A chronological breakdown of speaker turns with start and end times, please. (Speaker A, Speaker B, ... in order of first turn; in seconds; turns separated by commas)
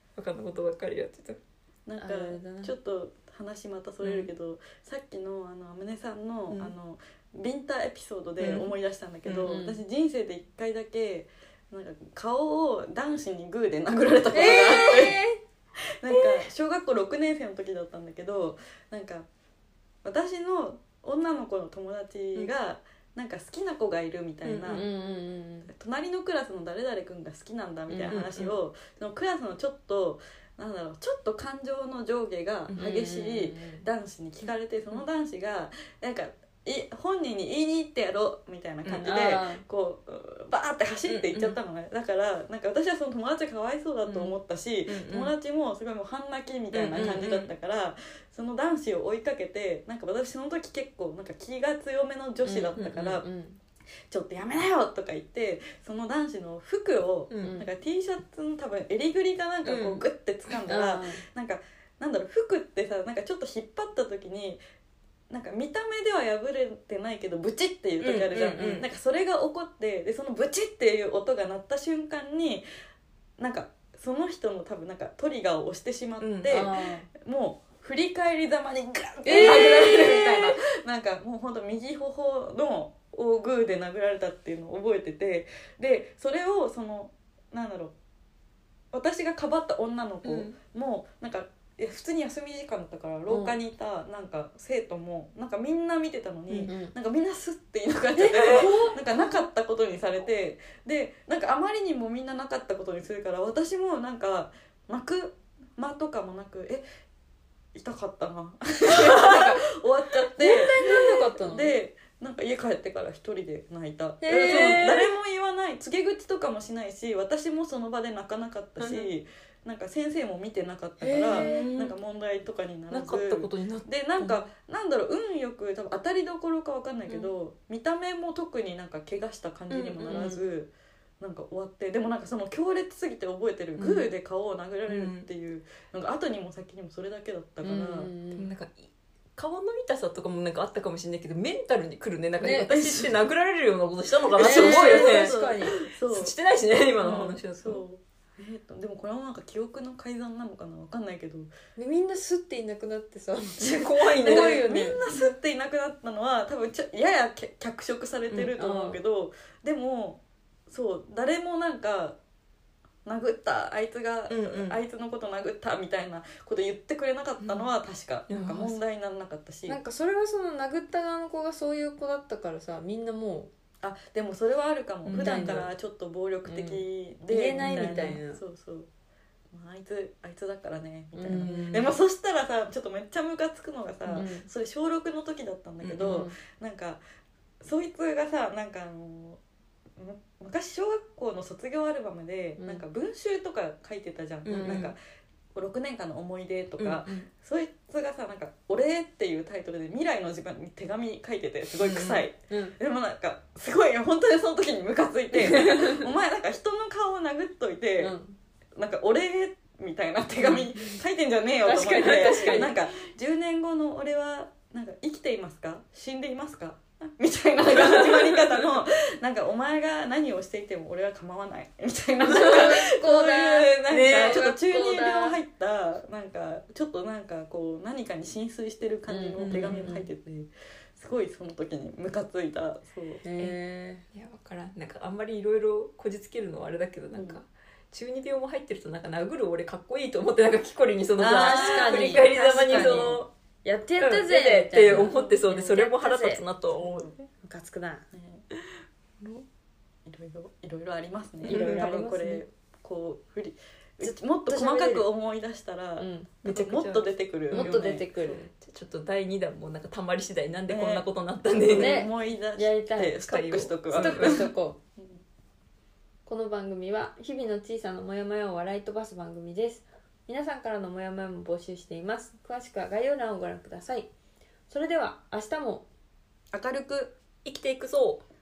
Speaker A: 0.1-1.4, Speaker B: 1.9-15.2, Speaker C: 2.0-2.7, Speaker A: 4.0-4.3, Speaker A: 8.4-8.7, Speaker A: 9.2-9.5, Speaker C: 9.4-9.8, Speaker C: 14.3-15.4, Speaker B: 16.0-19.3, Speaker A: 16.1-16.4, Speaker B: 20.0-24.9, Speaker A: 24.4-24.9, Speaker C: 24.7-25.7, Speaker B: 25.7-53.2, Speaker A: 27.9-28.6, Speaker C: 32.8-33.9, Speaker A: 38.9-39.1, Speaker C: 39.0-39.6, Speaker A: 41.1-41.6, Speaker A: 44.0-45.3, Speaker A: 46.7-47.5, Speaker C: 52.4-53.6, Speaker A: 52.8-53.2, Speaker B: 54.1-64.6, Speaker A: 57.3-57.6, Speaker C: 57.4-57.7, Speaker A: 59.6-60.0, Speaker C: 60.7-61.2, Speaker B: 65.3-72.6, Speaker A: 68.0-68.9, Speaker B: 73.4-87.9, Speaker A: 76.2-76.6, Speaker C: 76.5-77.1, Speaker C: 79.2-80.5, Speaker A: 79.3-80.3, Speaker B: 88.9-106.8, Speaker A: 90.2-90.5, Speaker C: 93.3-93.5, Speaker C: 96.6-96.9, Speaker C: 98.1-99.4, Speaker A: 98.2-98.9, Speaker B: 107.7-138.1, Speaker A: 108.9-109.6, Speaker C: 110.4-111.7, Speaker C: 114.2-114.9, Speaker A: 114.3-115.1, Speaker A: 118.8-119.1, Speaker C: 121.0-121.6, Speaker A: 121.2-121.9, Speaker A: 122.9-124.4, Speaker A: 129.7-130.3, Speaker C: 130.1-130.4, Speaker A: 133.8-134.1, Speaker A: 134.9-135.3, Speaker C: 137.6-138.5, Speaker A: 138.3-147.8, Speaker C: 142.4-142.7, Speaker B: 142.6-143.2, Speaker B: 144.3-146.3, Speaker C: 144.4-145.7, Speaker B: 147.0-151.5, Speaker C: 151.8-155.0, Speaker A: 153.6-155.2, Speaker B: 153.6-162.2, Speaker C: 158.5-159.0, Speaker B: 163.0-169.8, Speaker A: 164.3-164.8, Speaker A: 167.4-167.7, Speaker A: 168.3-168.8, Speaker C: 169.7-173.5, Speaker B: 173.8-178.9, Speaker A: 175.0-175.7, Speaker C: 175.2-175.7, Speaker C: 176.4-178.4, Speaker A: 177.6-178.2, Speaker B: 179.5-187.0, Speaker C: 181.1-181.6, Speaker A: 181.2-181.9, Speaker C: 184.1-184.5, Speaker A: 185.8-186.2, Speaker C: 186.0-186.3, Speaker B: 187.6-189.4, Speaker B: 189.9-195.0, Speaker C: 192.6-192.8, Speaker A: 194.4-194.9, Speaker C: 194.5-194.8, Speaker B: 195.5-208.1, Speaker A: 196.8-197.2, Speaker A: 201.8-202.2, Speaker C: 202.5-202.7, Speaker A: 205.5-205.8, Speaker C: 208.0-208.4, Speaker B: 208.8-233.2, Speaker C: 211.6-212.7, Speaker A: 212.0-212.7, Speaker A: 217.9-218.4, Speaker C: 222.3-225.4, Speaker A: 222.3-222.7, Speaker A: 223.9-224.5, Speaker C: 229.1-230.1, Speaker A: 229.4-229.9, Speaker C: 233.2-234.0, Speaker A: 234.1-243.3, Speaker B: 237.1-237.4, Speaker B: 241.2-243.2, Speaker C: 241.2-246.4, Speaker A: 244.0-247.1, Speaker B: 244.9-245.4, Speaker B: 246.8-247.3, Speaker C: 247.4-248.1, Speaker B: 248.1-248.4, Speaker B: 250.0-258.4, Speaker C: 251.4-252.4, Speaker A: 251.5-251.9, Speaker C: 254.0-255.1, Speaker C: 256.0-256.3, Speaker A: 256.4-262.0, Speaker C: 257.5-258.5, Speaker B: 260.7-261.0, Speaker B: 261.6-265.2, Speaker C: 261.7-263.2, Speaker A: 263.3-264.5, Speaker C: 263.9-264.8, Speaker C: 266.2-274.1, Speaker C: 274.7-275.9, Speaker B: 276.5-277.1, Speaker A: 277.4-278.2